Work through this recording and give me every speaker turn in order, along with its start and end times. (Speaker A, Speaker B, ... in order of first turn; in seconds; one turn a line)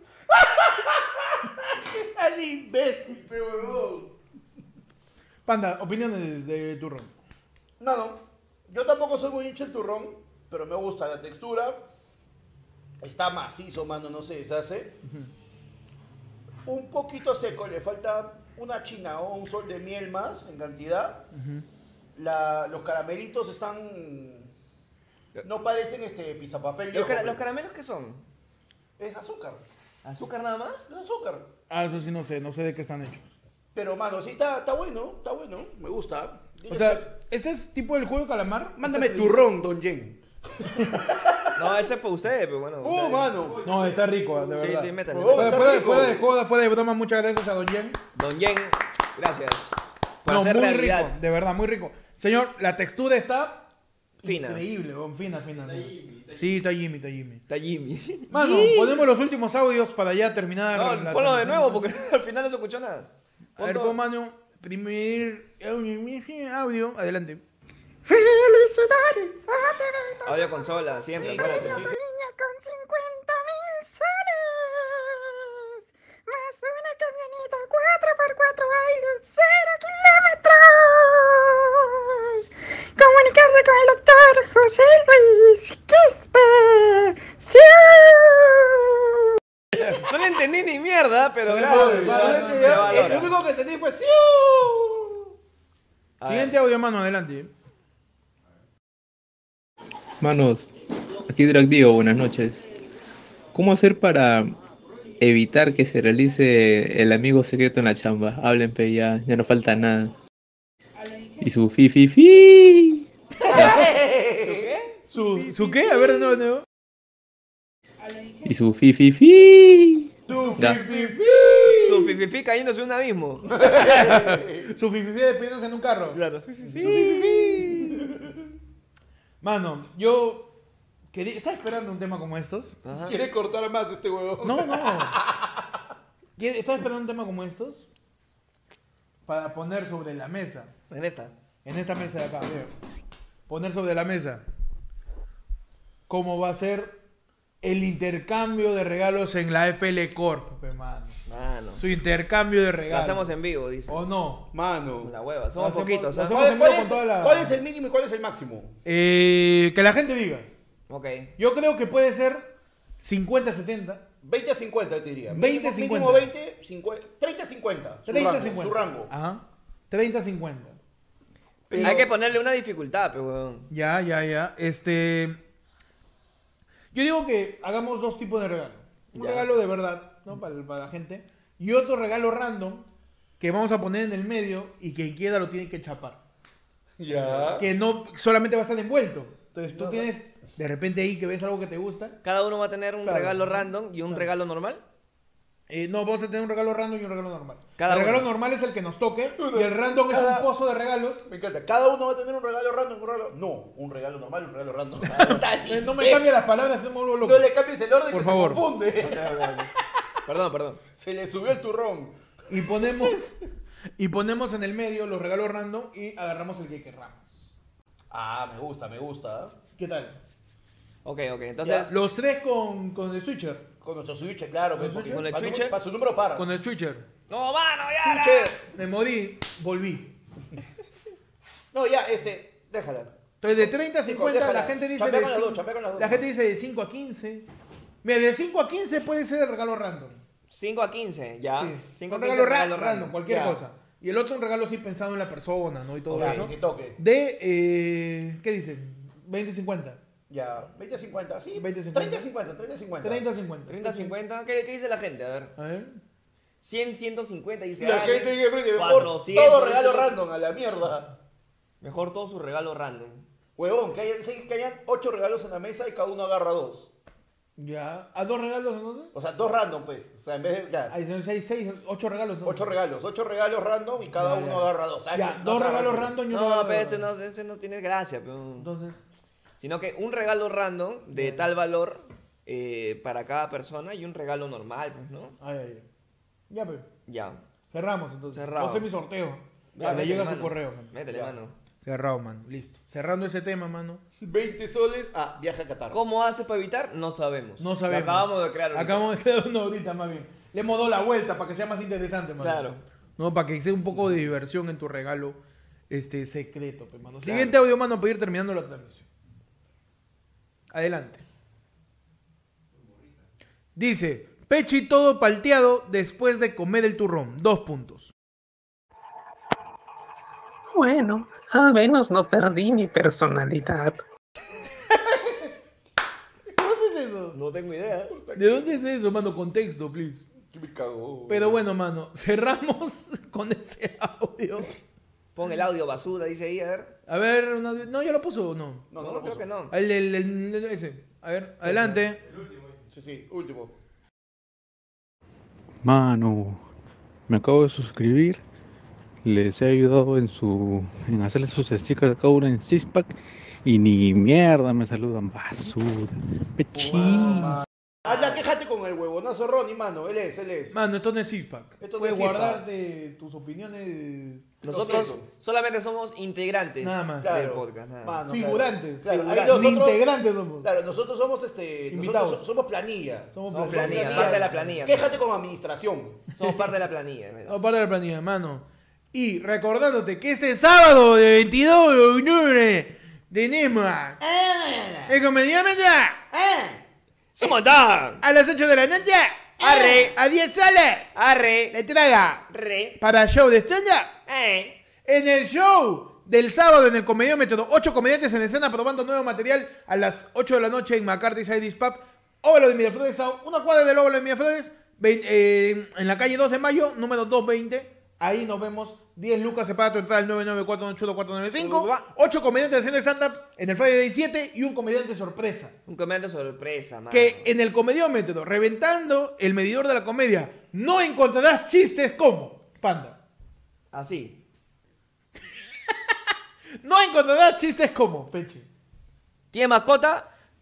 Speaker A: 0.3-4.1
Speaker B: 5.5-7.1
Speaker A: 7.8-11.8
Speaker A: 13.0-15.0
Speaker B: 15.0-15.3
Speaker A: 16.6-21.2
Speaker B: 21.3-21.7
Speaker A: 22.2-24.5
Speaker A: 25.4-27.4
Speaker C: 26.9-28.2
Speaker A: 29.0-29.6
Speaker C: 30.0-30.9
Speaker A: 30.9-31.5
Speaker B: 31.7-33.3
Speaker A: 33.7-37.1
Speaker B: 36.7-39.5
Speaker A: 38.8-40.2
Speaker A: 41.0-41.4
Speaker C: 41.5-43.4
Speaker A: 42.8-43.7
Speaker B: 43.6-48.0
Speaker C: 44.5-45.8
Speaker A: 45.1-46.3
Speaker C: 48.1-49.7
Speaker C: 50.2-51.2
Speaker B: 50.3-53.7
Speaker C: 54.2-54.6
Speaker B: 54.2-57.4
Speaker C: 57.5-59.0
Speaker B: 58.3-61.9
Speaker C: 60.7-64.0
Speaker B: 63.6-67.4
Speaker D: 68.1-88.9
Speaker C: 70.2-71.9
Speaker A: 71.2-72.0
Speaker C: 89.8-93.3
Speaker B: 91.5-93.2
Speaker A: 91.6-95.3
Speaker C: 96.2-96.5
Speaker B: 96.2-97.5
Speaker E: 100.2-100.7
Speaker E: 101.3-102.6
Speaker E: 103.5-104.5
Speaker E: 105.2-110.1
Speaker E: 111.4-113.9
Speaker A: 113.5-115.5
Speaker C: 113.5-113.8
Speaker C: 114.4-115.0
Speaker B: 115.1-116.7
Speaker E: 118.4-120.8
Speaker A: 120.3-122.2
Speaker B: 120.4-121.8
Speaker C: 121.8-123.9
Speaker A: 123.5-124.7
Speaker B: 123.6-126.2
Speaker C: 126.1-127.6
Speaker B: 126.8-128.1
Speaker A: 126.8-128.1
Speaker B: 129.4-130.5
Speaker B: 131.1-132.8
Speaker C: 132.8-133.2
Speaker A: 132.9-135.8
Speaker B: 134.4-135.2
Speaker B: 136.4-137.9
Speaker B: 139.3-140.7
Speaker C: 140.9-141.3
Speaker B: 141.7-142.6
Speaker A: 142.4-142.7
Speaker B: 143.5-144.4
Speaker B: 146.1-147.0
Speaker B: 147.6-151.2
Speaker C: 151.3-151.8
Speaker B: 151.8-153.3
Speaker C: 152.9-154.2
Speaker B: 153.9-154.5
Speaker A: 154.5-155.1
Speaker C: 155.0-156.4
Speaker B: 155.6-157.6
Speaker A: 156.2-158.8
Speaker B: 158.8-160.5
Speaker C: 160.9-161.3
Speaker B: 161.4-164.0
Speaker A: 164.2-169.1
Speaker B: 165.3-166.3
Speaker B: 168.1-170.8
Speaker C: 171.7-173.7
Speaker A: 171.7-172.1
Speaker B: 171.7-172.1
Speaker B: 173.7-175.4
Speaker B: 176.9-182.9
Speaker C: 179.1-179.5
Speaker B: 183.4-186.2
Speaker A: 187.0-187.7
Speaker C: 187.2-187.5
Speaker B: 187.6-192.2
Speaker A: 189.7-190.1
Speaker C: 192.2-194.8
Speaker B: 193.1-194.3
Speaker B: 195.7-201.2
Speaker C: 197.8-198.3
Speaker A: 199.4-200.5
Speaker A: 201.3-206.5
Speaker B: 205.1-207.5
Speaker C: 205.1-205.4
Speaker A: 207.2-209.5
Speaker B: 208.1-208.7
Speaker C: 209.0-209.7
Speaker C: 210.2-210.8
Speaker A: 211.0-212.2
Speaker B: 212.5-213.4
Speaker B: 214.0-217.3
Speaker A: 218.1-219.6
Speaker B: 219.8-220.2
Speaker C: 221.0-221.9
Speaker B: 221.7-223.7
Speaker A: 223.8-226.5
Speaker B: 224.8-225.3
Speaker C: 225.1-225.8
Speaker B: 226.3-227.1
Speaker C: 227.3-228.6
Speaker A: 228.0-228.6
Speaker B: 228.7-230.1
Speaker A: 231.7-236.3
Speaker B: 233.4-237.5
Speaker B: 238.0-240.2
Speaker C: 240.5-243.2
Speaker B: 241.6-250.0
Speaker A: 243.3-243.6
Speaker A: 246.1-247.0
Speaker A: 250.3-253.2
Speaker B: 251.5-252.3
Speaker B: 253.0-254.1
Speaker C: 253.7-255.5
Speaker B: 255.6-256.0
Speaker C: 256.6-260.2
Speaker A: 257.8-261.1
Speaker C: 261.8-263.3
Speaker A: 263.6-266.9
Speaker B: 267.6-269.1
Speaker A: 269.1-271.0
Speaker B: 270.9-272.7
Speaker A: 272.4-276.1
Speaker B: 274.0-277.1
Speaker C: 276.3-278.7
Speaker B: 278.6-279.0
Speaker C: 279.6-285.4
Speaker B: 281.1-281.5
Speaker B: 285.4-285.9
Speaker B: 286.5-286.9
Speaker C: 287.1-287.4
Speaker B: 287.7-290.9
Speaker C: 288.3-288.9
Speaker C: 289.8-291.6
Speaker A: 289.8-290.1
Speaker B: 291.8-294.0
Speaker A: 294.2-296.0
Speaker C: 295.9-299.1
Speaker B: 297.6-309.1
Speaker C: 302.4-302.8
Speaker C: 307.2-307.5
Speaker B: 310.7-311.2
Speaker B: 313.8-318.1
Speaker F: 320.7-324.0
Speaker B: 325.1-325.4
Speaker B: 326.6-327.4
Speaker C: 327.3-328.1
Speaker A: 328.1-328.8
Speaker B: 328.4-330.3
Speaker A: 330.4-331.6
Speaker B: 331.3-334.7
Speaker C: 335.4-336.9
Speaker B: 337.1-338.9
Speaker A: 338.9-339.5
Speaker C: 339.0-339.7
Speaker B: 339.7-342.2
Speaker C: 341.6-342.0
Speaker A: 342.9-343.7
Speaker G: 345.8-346.6
Speaker G: 347.3-348.4
Speaker G: 349.2-357.6
Speaker A: 357.0-360.8
Speaker B: 360.7-364.5
Speaker A: 361.8-362.6
Speaker C: 364.6-368.2
Speaker A: 364.6-365.3
Speaker B: 366.8-367.4
Speaker A: 367.2-376.2
Speaker B: 368.3-370.7
Speaker C: 369.1-369.7
Speaker B: 371.9-372.4
Speaker B: 373.3-374.8
Speaker C: 373.5-375.2
Speaker C: 376.4-377.6
Speaker B: 376.4-376.7
Speaker B: 377.5-384.2
Speaker A: 384.2-385.2
Speaker B: 385.1-386.2
Speaker A: 386.3-386.8
Speaker C: 387.4-388.2
Speaker B: 388.2-391.1
Speaker C: 389.6-390.2
Speaker C: 391.1-391.8
Speaker B: 391.7-392.5
Speaker C: 392.5-393.0
Speaker B: 393.0-394.1
Speaker C: 394.3-394.8
Speaker B: 395.1-415.7
Speaker C: 411.6-412.1
Speaker C: 415.9-417.5
Speaker B: 417.1-423.2
Speaker C: 423.9-424.4
Speaker B: 425.9-426.1
Speaker B: 426.8-428.7
Speaker C: 429.5-430.3